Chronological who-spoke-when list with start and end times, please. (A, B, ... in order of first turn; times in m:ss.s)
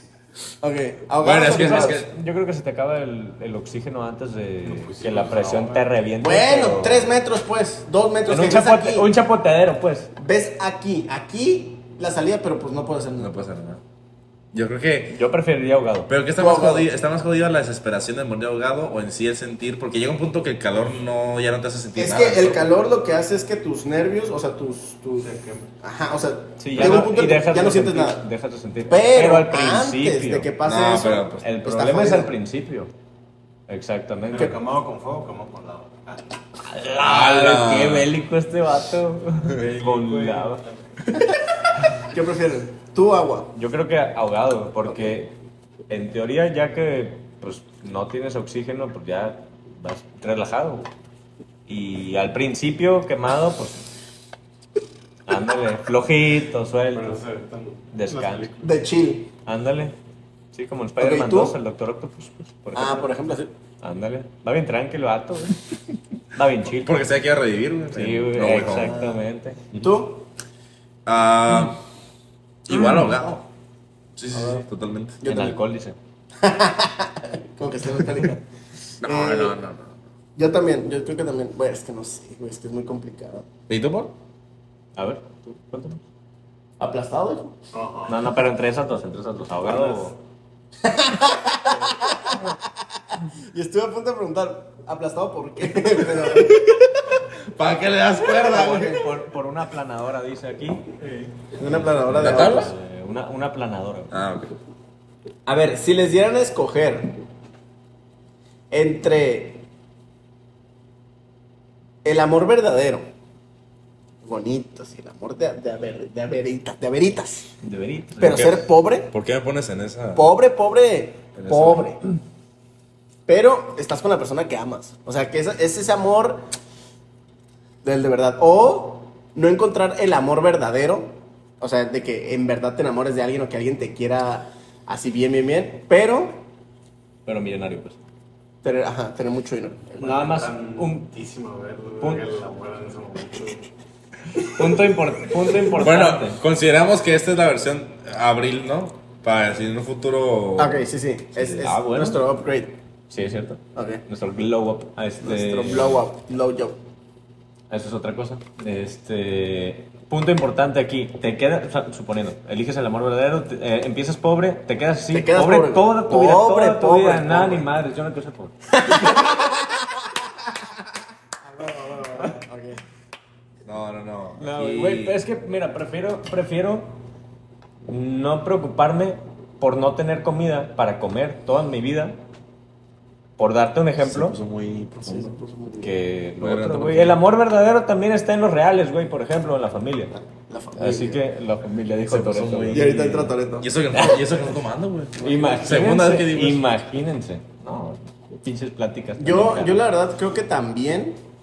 0:00.6-0:02.0 A
0:01.2-0:02.1 B
0:01.4-0:07.1 C
0:04.6-0:05.9 D
0:06.2-0:09.1 A
0:08.3-0:10.1 C
0:10.2-0:13.3 A
0:13.2-0:13.8 B
0:14.5-0:15.2 B
0:15.1-0:16.1 C
0:16.1-0:22.7 B
0:16.4-0:16.9 A
0:22.0-0:25.3 A
0:25.2-0:25.7 D
0:25.8-0:28.2 A
0:26.6-0:30.5 C
0:28.9-0:32.3 A
0:30.6-0:31.4 B
0:31.4-0:32.9 C
0:33.7-0:34.6 C
0:34.3-0:36.2 D
0:36.7-0:40.6 C
0:37.0-0:38.1 B
0:39.5-0:41.2 D
0:42.1-0:43.5 A
0:43.6-0:45.4 C
0:45.9-0:50.9 C
0:51.7-0:53.8 C
0:55.3-0:57.2 C
0:56.9-0:58.7 D
0:57.9-0:58.5 C
0:58.6-0:59.3 A
0:59.4-1:00.0 C
1:00.5-1:03.2 C
1:01.0-1:01.6 A
1:02.8-1:03.5 A
1:03.8-1:05.6 C
1:06.3-1:07.0 C
1:06.7-1:09.0 B
1:07.9-1:09.6 C
1:08.6-1:09.2 A
1:09.8-1:10.2 A
1:11.1-1:11.8 B
1:12.7-1:13.5 B
1:12.7-1:13.2 C
1:14.2-1:15.2 B
1:14.4-1:14.6 A
1:15.2-1:15.6 A
1:15.2-1:16.0 C
1:16.4-1:18.4 A
1:19.0-1:20.0 B
1:19.0-1:19.6 A
1:20.4-1:23.5 A
1:23.7-1:24.1 B
1:25.0-1:26.0 C
1:26.8-1:27.6 A
1:27.7-1:28.2 D
1:28.1-1:30.2 C
1:29.6-1:30.0 A
1:30.8-1:36.9 A
1:37.5-1:39.0 B
1:38.2-1:39.0 A
1:38.5-1:41.0 C
1:41.0-1:41.4 D
1:41.5-1:44.1 C
1:41.6-1:42.7 A
1:42.2-1:42.7 B
1:44.1-1:44.5 B
1:45.5-1:47.2 A
1:48.7-1:49.6 A
1:52.0-1:53.0 A
1:54.2-1:57.5 A
1:57.6-1:58.6 C
1:58.2-1:59.1 A
1:58.2-2:00.3 B
2:00.2-2:02.0 A
2:01.4-2:01.9 B
2:03.3-2:06.4 A
2:07.8-2:16.4 A
2:17.3-2:18.0 C
2:18.6-2:20.3 A
2:20.0-2:21.1 C
2:20.2-2:23.7 D
2:22.0-2:22.3 C
2:24.4-2:26.4 C
2:25.8-2:30.9 B
2:30.6-2:32.7 A
2:31.4-2:32.2 C
2:33.1-2:36.0 C
2:33.8-2:34.0 A
2:35.2-2:36.8 A
2:37.7-2:48.5 C
2:45.1-2:47.7 A
2:48.7-2:50.6 A
2:51.4-2:52.8 A
2:53.7-2:55.2 B
2:54.4-2:57.0 C
2:57.9-3:02.2 C
3:03.4-3:04.4 C
3:04.0-3:05.4 B
3:05.0-3:05.9 A
3:05.8-3:10.2 C
3:06.4-3:07.2 B
3:10.5-3:11.2 A
3:10.8-3:13.3 C
3:12.1-3:16.6 B
3:12.7-3:14.1 A
3:13.9-3:14.2 C
3:15.2-3:19.8 C
3:15.2-3:15.7 A
3:19.2-3:21.2 A